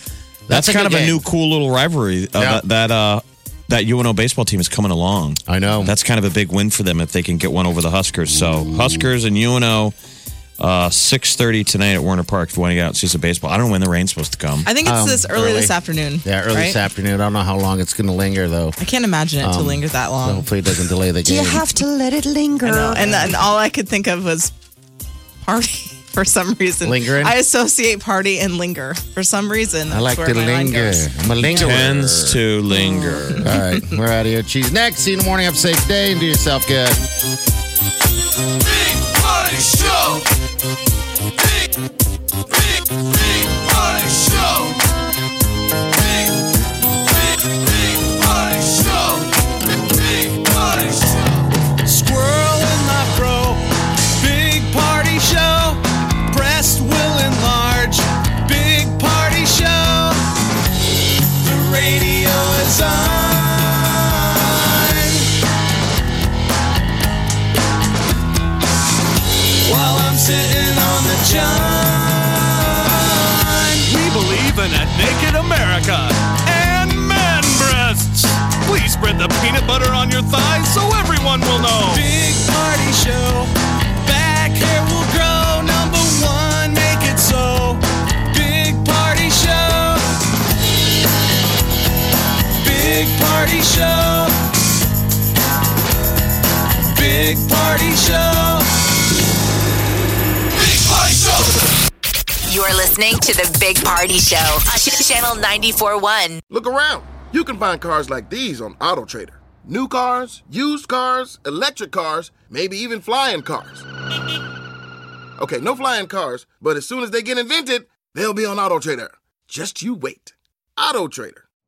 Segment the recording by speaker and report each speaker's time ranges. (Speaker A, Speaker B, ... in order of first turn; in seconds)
Speaker A: 0.5-1.2, 2.4-2.6, 5.5-6.0, 14.8-18.8, 19.4-21.6, 23.0-23.3, 26.8-27.4, 29.9-32.4, 33.4-37.0
Speaker B: 0.5-9.9, 10.6-14.7, 31.4-33.4
Speaker C: 14.6-16.8, 18.8-20.5, 22.6-24.5, 25.4-31.1
Speaker D: 21.2-23.3, 32.7-33.4
Speaker E: 43.5-44.7, 48.1-49.2, 50.3-51.1, 51.9-53.6, 54.2-60.2, 61.5-65.2, 69.7-83.5, 84.0-90.0, 92.6-94.3, 96.9-98.6
Speaker F: 102.5-106.4
Speaker G: 106.5-113.8, 115.4-121.4